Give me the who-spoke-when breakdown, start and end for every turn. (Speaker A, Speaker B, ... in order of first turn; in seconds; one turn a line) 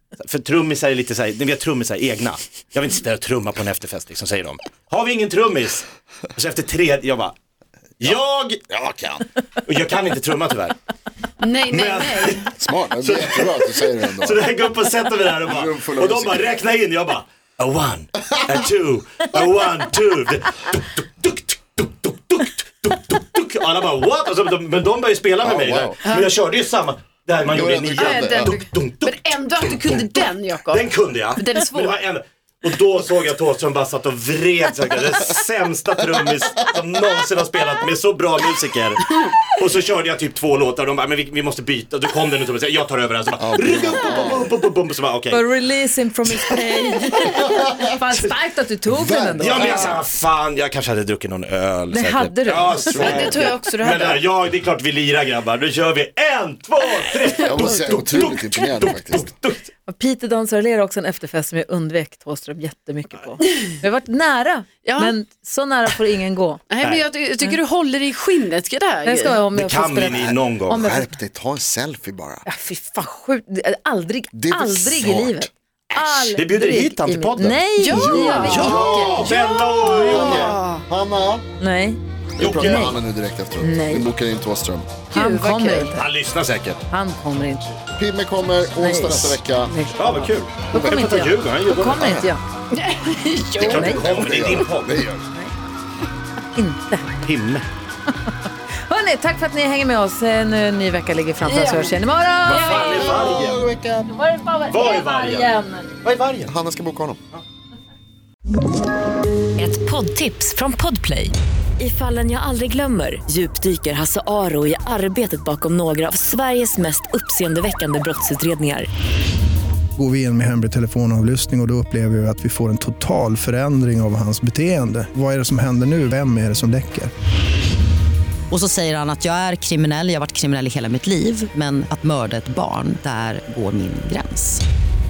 Speaker A: 0.2-7.3
Speaker A: 8.0-8.7
Speaker B: 8.7-9.2
Speaker A: 9.6-10.8
Speaker C: 11.4-12.5
Speaker A: 11.7-45.5
Speaker B: 12.6-14.5
Speaker B: 15.4-16.6
Speaker B: 25.4-25.9
Speaker B: 27.4-28.6
Speaker C: 27.9-32.0
Speaker B: 43.4-44.5
Speaker D: 45.3-50.0
Speaker B: 47.3-47.9
Speaker B: 48.9-50.0
Speaker A: 49.4-59.7
Speaker D: 51.9-53.5
Speaker B: 52.9-53.5
Speaker C: 52.9-54.2
Speaker C: 57.4-57.9
Speaker B: 57.4-59.3
Speaker D: 59.9-66.6
Speaker C: 64.8-65.1
Speaker C: 66.7-69.4
Speaker A: 66.8-67.1
Speaker D: 69.0-71.1
Speaker A: 69.5-70.8
Speaker B: 70.7-72.5
Speaker D: 72.5-79.3
Speaker B: 74.3-75.5
Speaker A: 76.3-77.6
Speaker C: 77.8-80.8
Speaker B: 77.8-79.4
Speaker A: 78.4-80.6
Speaker B: 80.0-81.5
Speaker D: 81.6-82.0
Speaker B: 82.4-84.9
Speaker A: 82.4-83.0
Speaker D: 82.5-83.0
Speaker D: 83.6-84.1
Speaker C: 85.1-86.0
Speaker D: 85.1-86.1
Speaker A: 86.0-86.8
Speaker D: 86.9-87.7
Speaker B: 88.0-89.7
Speaker D: 88.8-92.4
Speaker A: 90.0-92.1
Speaker B: 91.9-92.3
Speaker C: 92.7-94.6
Speaker B: 93.6-95.3
Speaker D: 93.6-94.1
Speaker A: 93.6-95.0
Speaker D: 96.5-97.2
Speaker A: 97.2-97.7
Speaker D: 98.9-103.3
Speaker C: 101.5-101.9
Speaker A: 102.4-103.7
Speaker C: 102.5-103.3
Speaker B: 103.2-104.1
Speaker D: 104.1-105.9
Speaker A: 104.7-105.5
Speaker A: 106.0-106.5
Speaker B: 106.5-107.2
Speaker E: 109.6-118.9
Speaker F: 120.0-127.1
Speaker G: 128.5-134.6